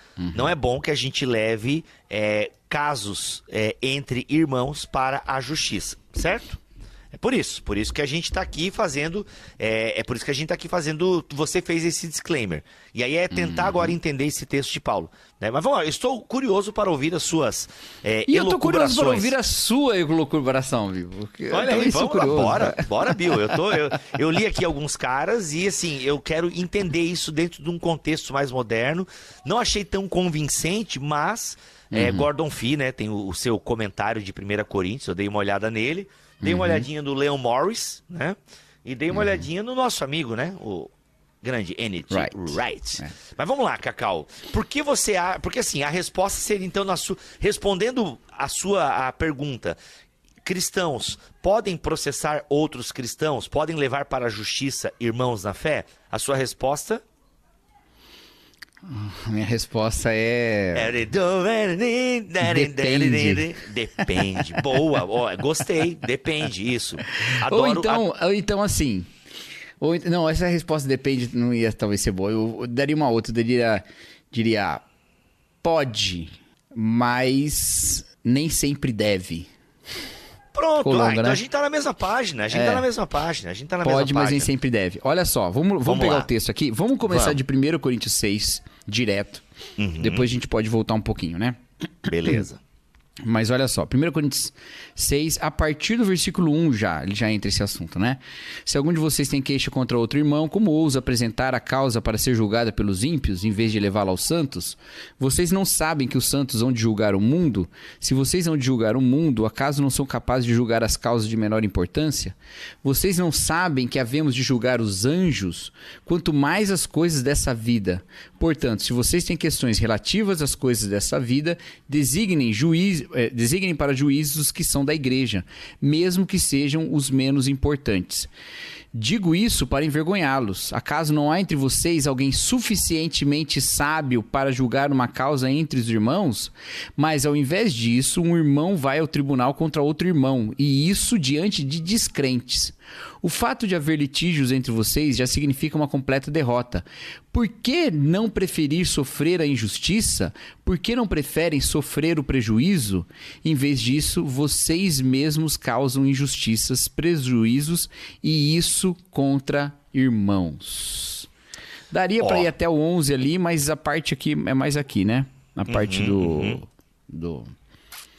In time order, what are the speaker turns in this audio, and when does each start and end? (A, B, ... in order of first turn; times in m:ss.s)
0:00.2-0:00.5 A
0:00.3-0:06.6 B
0:07.1-0:19.3 B
0:13.3-0:14.0 A
0:18.3-0:24.0 A
0:21.5-0:49.8 B
0:31.9-0:32.3 A
0:36.4-0:36.9 A
0:39.1-0:39.5 A
0:42.1-0:43.1 A
0:50.4-0:57.0 B
0:58.8-1:01.0 A
1:00.7-1:08.0 B
1:02.4-1:03.5 A
1:04.1-1:04.8 A
1:07.2-1:09.1 A
1:09.8-1:14.8 A
1:15.6-1:19.5 A
1:20.5-1:24.5 B
1:20.8-1:21.4 A
1:22.5-1:22.9 A
1:23.8-1:29.4 A
1:25.8-1:26.3 B
1:27.1-1:27.4 B
1:29.8-1:30.3 B
1:30.0-1:32.4 A
1:32.1-1:32.6 B
1:33.2-2:08.3 A
2:08.9-2:41.3 A
2:41.9-2:47.5 A
2:42.2-2:42.5 B
2:45.7-2:46.6 B